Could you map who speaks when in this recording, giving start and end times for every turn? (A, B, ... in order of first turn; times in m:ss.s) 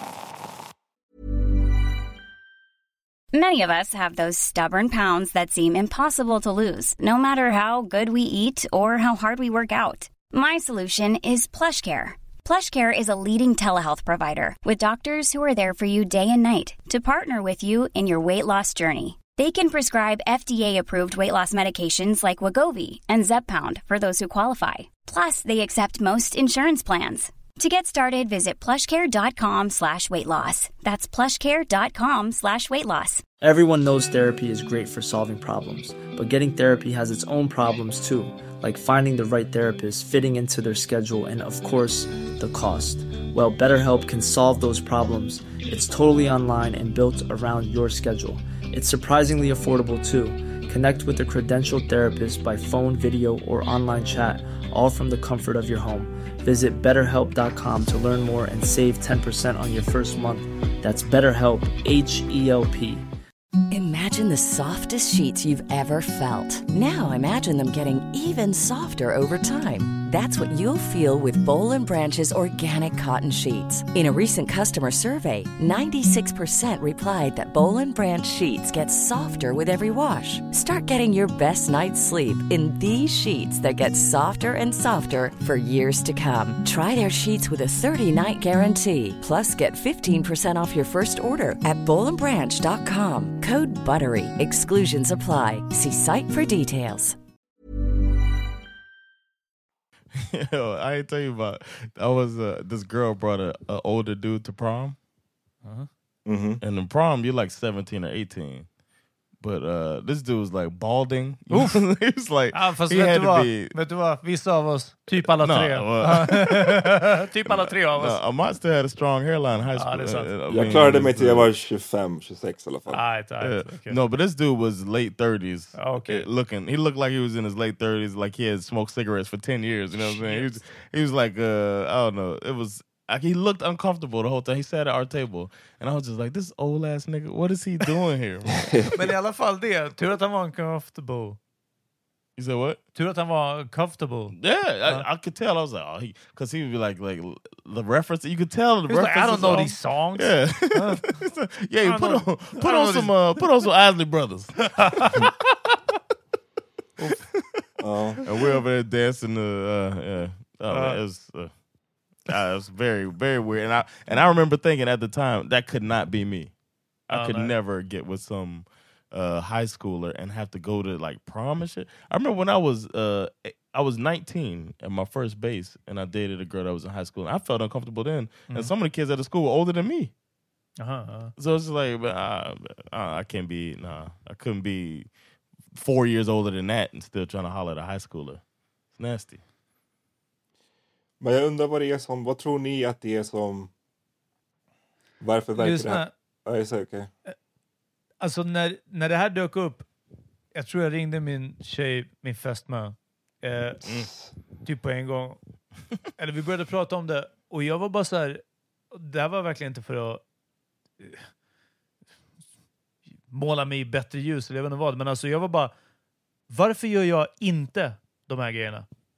0:03.3-0:33.2 A
0:33.4-1:03.0 B
1:03.7-1:37.2 C
1:40.1-1:45.0 D
1:45.6-1:45.9 E
1:46.2-1:46.6 F
1:46.6-1:48.7 D
1:49.4-1:53.7 D
1:51.5-1:51.8 E
1:52.5-1:58.2 E
1:55.2-2:01.5 D
1:59.8-2:00.3 E
2:00.5-2:03.0 F
2:02.9-2:04.0 E
2:03.4-2:18.9 D
2:05.8-2:06.2 E
2:10.0-2:10.6 E
2:18.9-2:21.4 E
2:22.4-2:22.8 D
2:22.9-2:25.0 E
2:24.4-2:35.1 D
2:28.9-2:31.2 E
2:31.8-2:33.1 E
2:34.6-2:35.8 E
2:37.2-2:37.6 D
2:37.8-2:38.2 F
2:38.2-2:41.5 D
2:40.7-2:41.0 E
2:42.2-2:46.5 D
2:47.1-3:00.1 D
2:47.1-2:47.5 E
3:00.8-3:01.3 E
3:01.4-3:05.1 D
3:05.7-3:08.4 D
3:08.9-3:09.4 D
3:11.2-3:13.7 F
3:15.2-3:17.1 F
3:15.6-3:16.1 E
3:18.2-3:19.9 E
3:20.6-3:23.9 E
3:23.9-3:24.2 F
3:24.6-3:25.4 E
3:26.2-3:28.4 E
3:28.9-3:30.2 E
3:31.0-3:31.2 E
3:33.3-3:35.7 E
3:36.5-3:38.9 E